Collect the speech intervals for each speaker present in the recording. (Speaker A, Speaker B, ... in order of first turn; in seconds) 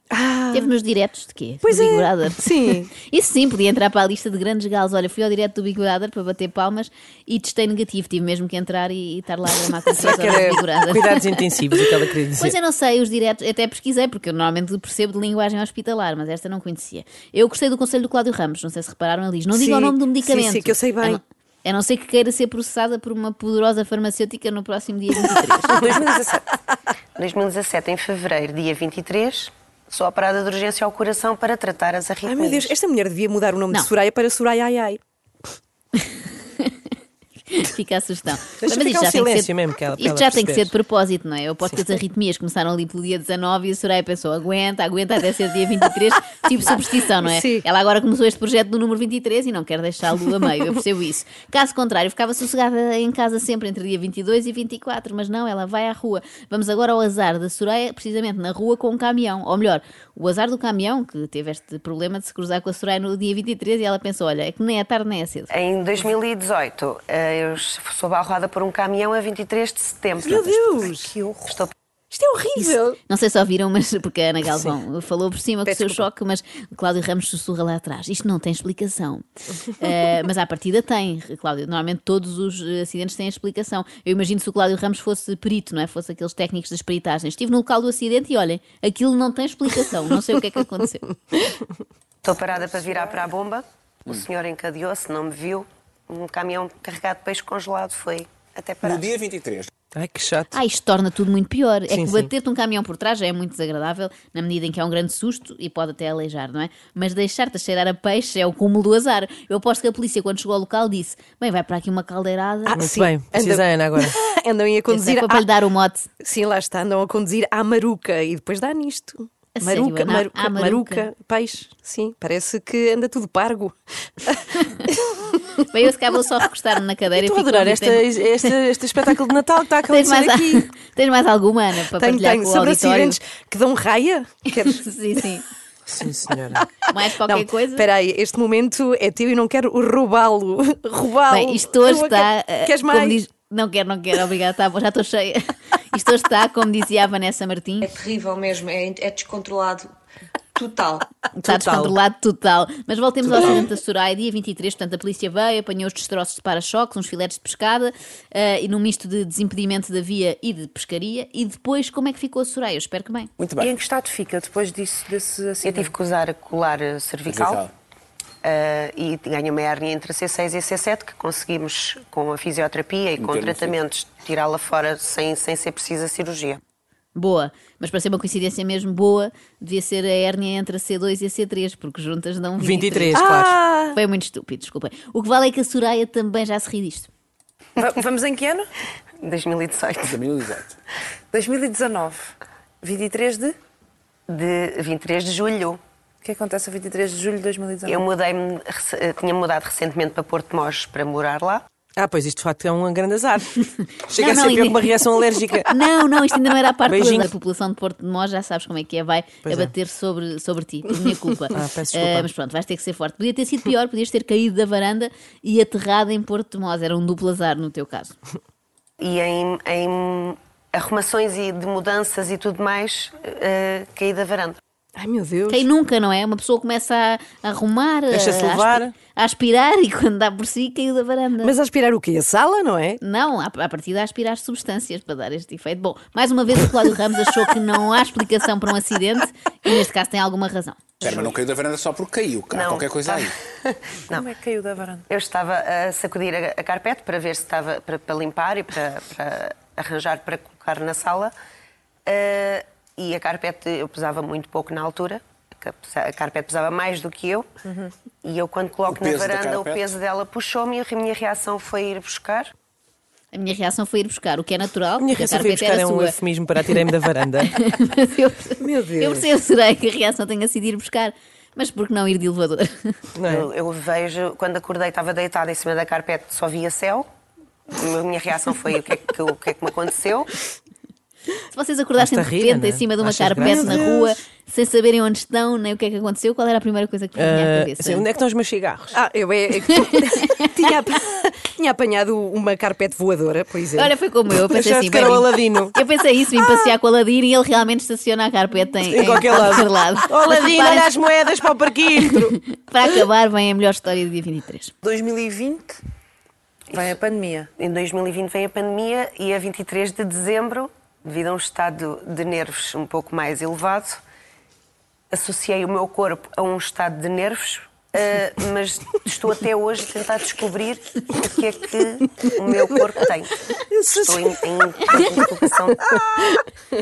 Speaker A: 0.1-0.7, 1.6-2.9, 9.9-10.6, 19.5-21.2, 25.6-26.4, 32.2-35.0, 47.2-47.7, 70.2-71.5, 72.1-73.0, 75.7-76.0, 112.7-115.5, 116.2-125.6, 131.8-134.8, 137.2-143.2, 151.5-152.0, 183.1-184.0, 225.0-225.7, 231.4-233.0, 268.6-269.3, 283.4-284.1, 288.9-293.9, 323.7-324.3, 325.0-325.2, 325.9-326.4
Speaker B: 0.5-11.5, 12.4-26.0, 36.0-36.7, 37.5-65.5, 72.6-79.3, 79.8-91.1, 100.5-112.9, 114.9-116.1, 119.5-121.1, 124.6-124.9, 125.6-128.5, 129.9-133.2, 134.5-135.5, 136.8-137.9, 141.3-147.9, 151.4-163.3, 177.2-183.3, 183.9-187.1, 204.1-204.9, 205.7-218.2, 225.5-231.6, 233.0-240.8, 263.3-266.2, 267.5-273.0, 281.4-288.1, 289.8-290.7, 293.8-300.9, 302.1-304.7
Speaker C: 10.2-12.6, 38.6-40.7, 99.9-100.6, 101.9-102.3, 112.7-114.2, 127.2-130.7, 135.9-136.7, 153.3-153.7, 182.6-183.6, 202.0-203.6, 204.1-205.7, 206.9-207.3, 209.4-209.7, 211.5-212.3, 228.1-228.9, 265.0-267.6, 273.1-273.5, 282.0-283.9, 287.2-289.0, 294.5-295.8, 298.9-302.4
Speaker D: 27.2-32.8, 65.5-70.8, 71.5-71.7, 92.2-99.1, 165.6-167.6, 168.4-176.6, 189.2-190.2, 194.3-195.8, 197.8-201.6, 219.0-224.6, 241.0-241.4, 242.5-244.3, 245.1-251.3, 252.1-257.5, 258.2-262.5, 273.2-277.1, 277.7-280.3, 307.6-314.0, 315.1-323.3, 323.9-325.8
Speaker E: 98.8-99.7, 163.4-163.8, 167.3-167.7, 173.2-173.8, 190.0-190.8, 241.0-243.3, 258.9-259.9
Speaker F: 147.9-149.9, 150.6-151.0
Speaker G: 163.6-165.9, 187.8-188.7, 191.3-193.6, 196.2-198.0, 244.2-245.0, 304.8-305.8, 306.7-307.5